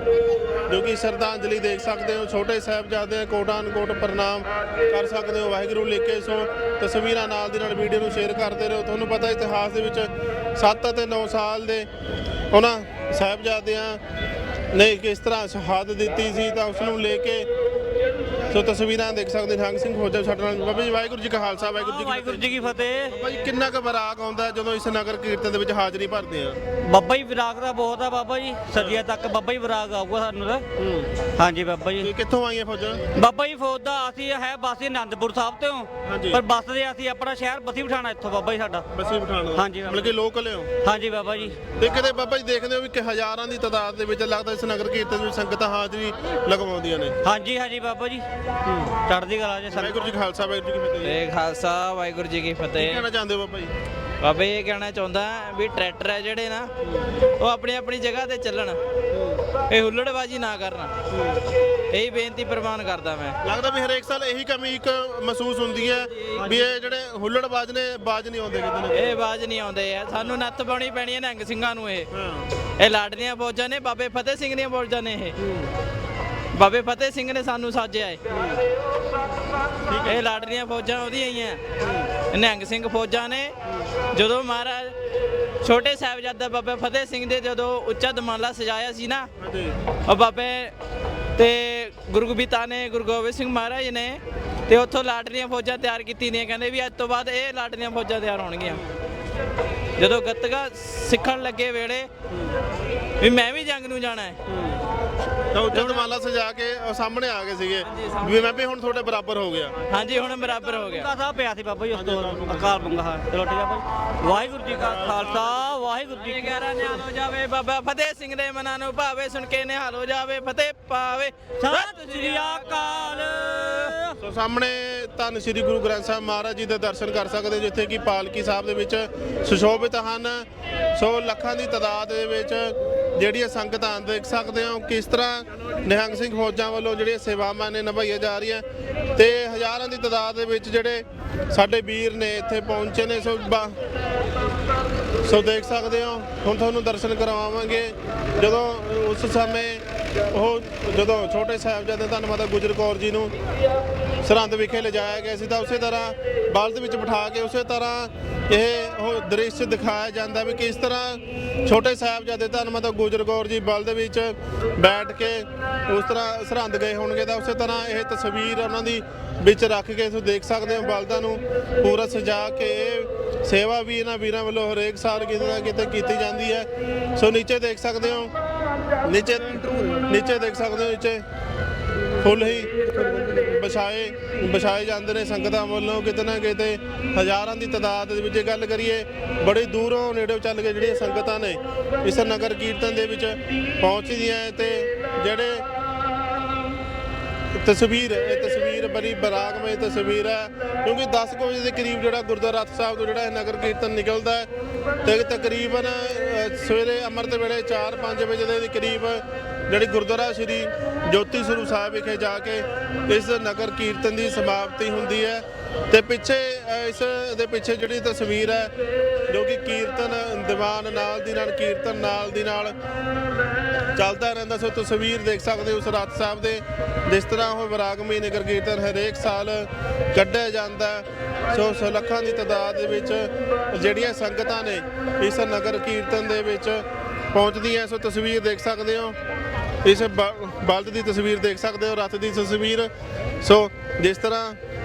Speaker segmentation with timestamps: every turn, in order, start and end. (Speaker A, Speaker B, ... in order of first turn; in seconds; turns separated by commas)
Speaker A: 0.7-11.9, Speaker A: 12.5-14.0, Speaker A: 14.7-17.5, Speaker A: 18.5-22.6, Speaker B: 21.6-23.5, Speaker A: 23.1-26.6, Speaker B: 26.9-30.6, Speaker A: 28.7-29.0, Speaker A: 30.8-31.1, Speaker B: 31.4-32.1, Speaker A: 32.0-33.0, Speaker B: 33.1-38.9, Speaker A: 36.0-36.4, Speaker A: 38.9-40.8, Speaker B: 39.5-40.1, Speaker B: 40.8-41.5, Speaker A: 41.4-47.2, Speaker B: 47.2-48.2, Speaker B: 49.1-50.1, Speaker A: 49.7-51.2, Speaker C: 51.0-53.0, Speaker A: 52.7-53.7, Speaker C: 54.2-56.7, Speaker C: 57.4-58.8, Speaker A: 59.1-59.4, Speaker C: 59.7-60.9, Speaker A: 61.1-61.4, Speaker C: 61.9-63.4, Speaker A: 63.4-69.2, Speaker C: 66.3-66.7, Speaker C: 68.9-72.1, Speaker A: 72.1-72.5, Speaker C: 72.8-75.4, Speaker C: 76.5-78.2, Speaker A: 78.3-78.6, Speaker A: 79.9-80.2, Speaker C: 80.0-81.6, Speaker A: 81.8-82.1, Speaker C: 82.3-83.5, Speaker C: 84.1-84.9, Speaker C: 85.6-89.3, Speaker A: 89.4-89.7, Speaker C: 90.1-90.7, Speaker C: 91.4-98.8, Speaker C: 100.0-102.1, Speaker C: 103.2-104.3, Speaker A: 104.5-104.8, Speaker A: 105.5-109.8, Speaker C: 105.7-106.1, Speaker C: 108.0-108.4, Speaker C: 109.9-111.1, Speaker B: 110.2-116.6, Speaker A: 111.9-112.8, Speaker A: 114.8-115.7, Speaker C: 116.1-122.4, Speaker B: 121.6-124.2, Speaker A: 124.2-138.6, Speaker A: 139.2-143.8, Speaker A: 145.2-153.3, Speaker A: 154.2-178.3, Speaker A: 179.1-181.2, Speaker A: 182.2-182.7, Speaker A: 183.3-195.7, Speaker A: 197.6-204.5, Speaker A: 205.1-218.7, Speaker A: 219.3-222.8, Speaker A: 223.9-239.2, Speaker A: 239.8-242.9, Speaker A: 243.4-244.6